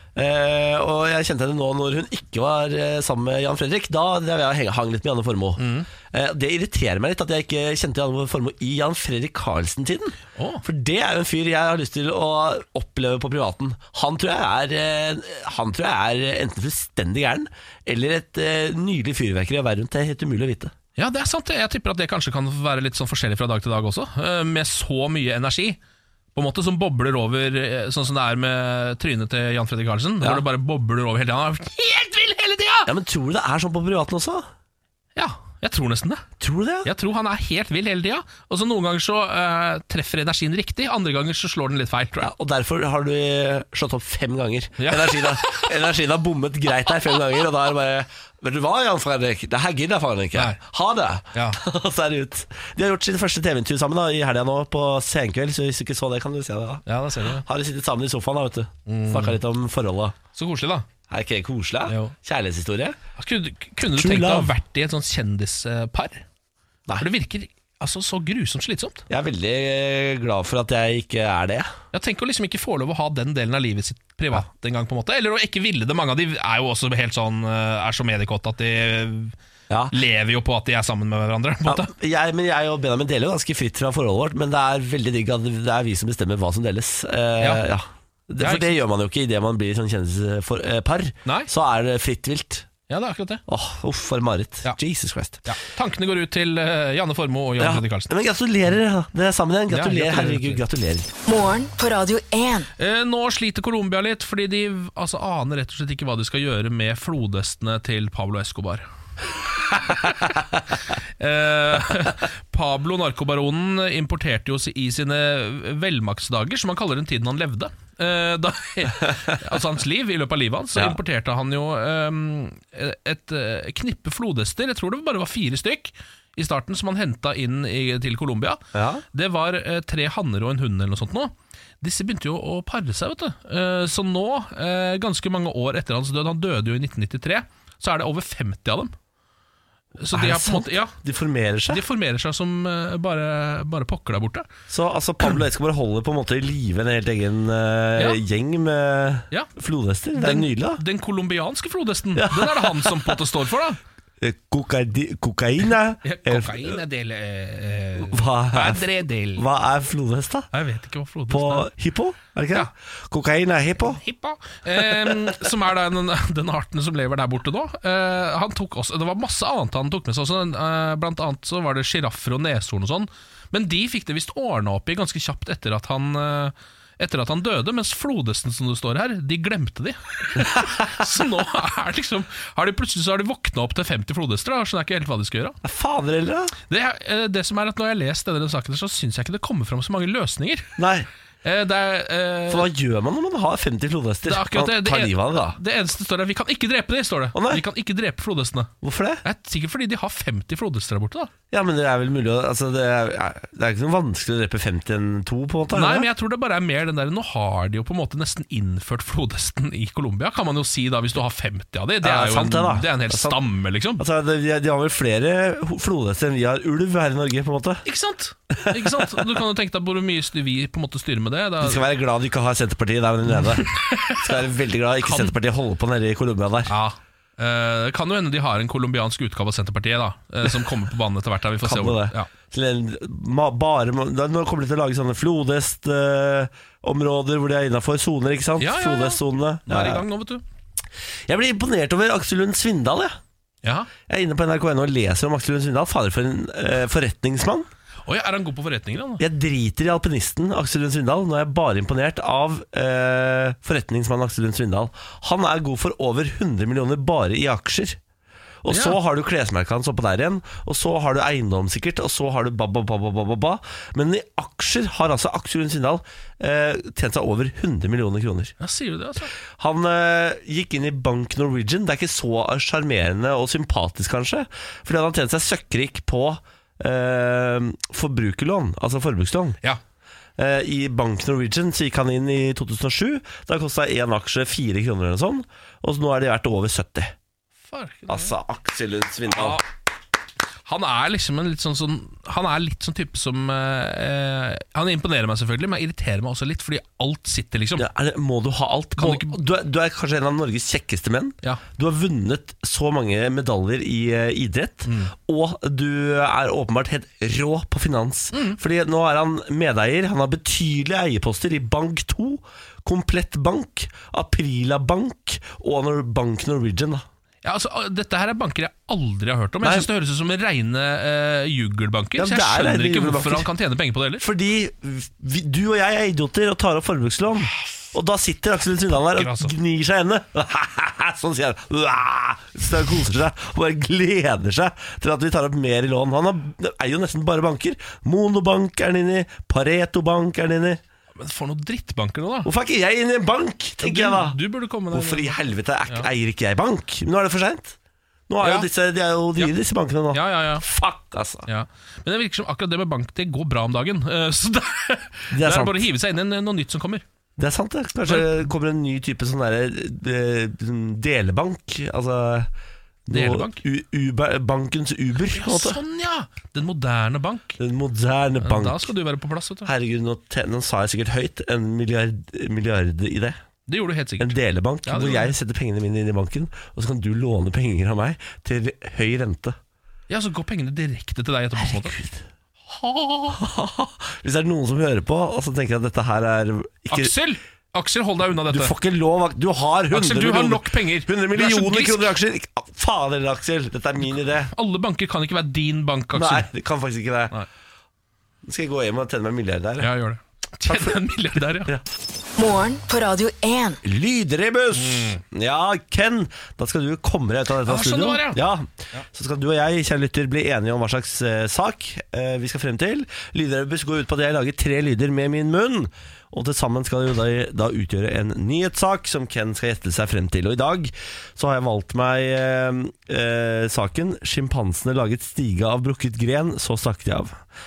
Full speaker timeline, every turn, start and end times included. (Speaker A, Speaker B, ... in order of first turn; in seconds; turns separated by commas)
Speaker A: 0.1-20.7, Speaker B: 5.6-5.9, Speaker B: 10.3-10.6, Speaker B: 20.9-25.8, Speaker B: 26.3-32.9, Speaker A: 32.9-34.5, Speaker B: 35.1-36.2, Speaker A: 36.4-36.9, Speaker B: 36.8-42.3, Speaker A: 42.2-60.1, Speaker B: 44.8-45.7, Speaker B: 50.3-50.6, Speaker B: 51.3-51.6, Speaker B: 56.9-57.4, Speaker B: 58.9-59.4, Speaker B: 60.3-60.9, Speaker A: 61.1-63.0, Speaker B: 61.9-62.1, Speaker B: 63.2-66.2, Speaker A: 63.9-64.5, Speaker B: 67.0-69.0, Speaker A: 69.1-71.7, Speaker B: 71.9-79.3, Speaker A: 79.7-79.9, Speaker B: 79.9-81.9, Speaker A: 81.7-92.7, Speaker B: 87.4-87.6, Speaker B: 88.4-88.8, Speaker B: 91.2-91.5, Speaker B: 92.9-93.4, Speaker A: 93.5-95.5, Speaker B: 95.4-98.1, Speaker A: 97.6-101.1, Speaker B: 99.7-100.6, Speaker C: 101.2-102.7, Speaker B: 102.8-108.8, Speaker B: 109.8-110.2, Speaker B: 111.0-128.6, Speaker A: 128.7-129.0, Speaker B: 129.1-138.9, Speaker B: 140.0-140.9, Speaker A: 140.1-141.8, Speaker B: 141.7-144.5, Speaker A: 144.7-150.8, Speaker B: 148.0-148.2, Speaker B: 150.2-153.8, Speaker A: 152.2-153.2, Speaker A: 154.2-156.8, Speaker B: 156.0-159.4, Speaker A: 158.0-160.5, Speaker B: 160.5-161.7, Speaker A: 161.3-164.0, Speaker B: 163.8-185.6, Speaker A: 185.6-186.5, Speaker B: 186.7-190.8, Speaker A: 190.8-191.1, Speaker B: 191.4-192.7, Speaker A: 192.5-195.6, Speaker B: 194.2-198.7, Speaker A: 197.3-197.6, Speaker A: 198.8-199.2, Speaker B: 199.2-201.3, Speaker A: 201.5-206.1, Speaker B: 205.7-214.0, Speaker A: 212.0-213.4, Speaker A: 214.0-217.8, Speaker B: 217.8-221.8, Speaker A: 218.5-219.3, Speaker A: 221.6-226.7, Speaker B: 223.3-224.4, Speaker B: 225.0-225.3, Speaker B: 226.7-232.3, Speaker A: 231.6-240.0, Speaker B: 238.6-240.4, Speaker A: 241.3-243.2, Speaker B: 243.6-243.9, Speaker A: 244.1-247.7, Speaker B: 248.1-249.2, Speaker A: 249.2-258.0, Speaker A: 258.6-268.5, Speaker B: 258.7-259.0, Speaker B: 268.6-269.3, Speaker A: 269.5-279.6, Speaker A: 280.4-287.1, Speaker B: 287.6-288.3, Speaker A: 288.1-289.6, Speaker B: 289.3-289.6, Speaker B: 290.6-297.9, Speaker A: 297.8-317.0, Speaker B: 299.0-299.4, Speaker B: 304.8-305.1, Speaker B: 308.3-308.6, Speaker B: 317.4-324.2, Speaker A: 319.6-319.9, Speaker A: 322.2-323.5, Speaker A: 324.2-340.8, Speaker B: 329.1-329.5, Speaker B: 341.1-342.5, Speaker A: 342.4-347.8, Speaker B: 343.8-345.4, Speaker A: 348.3-351.5, Speaker B: 348.4-348.7, Speaker B: 350.1-350.6, Speaker B: 351.5-357.0, Speaker A: 355.3-355.9, Speaker A: 357.4-362.5, Speaker B: 358.1-358.5, Speaker A: 363.1-365.8, Speaker B: 363.1-363.6, Speaker B: 365.3-367.6, Speaker A: 367.6-368.9, Speaker B: 368.4-369.7, Speaker A: 369.6-373.4, Speaker B: 373.7-375.3, Speaker A: 374.2-379.6, Speaker B: 380.1-381.9, Speaker A: 381.6-382.2, Speaker B: 382.7-383.4, Speaker A: 383.3-387.1, Speaker B: 386.9-388.7, Speaker A: 388.5-394.5, Speaker B: 389.9-392.1, Speaker B: 394.5-396.5, Speaker A: 396.1-397.3, Speaker A: 398.4-399.9, Speaker B: 399.8-401.7, Speaker A: 400.6-401.0, Speaker C: 402.4-403.8, Speaker A: 403.8-427.4, Speaker B: 404.7-405.2, Speaker B: 407.6-408.4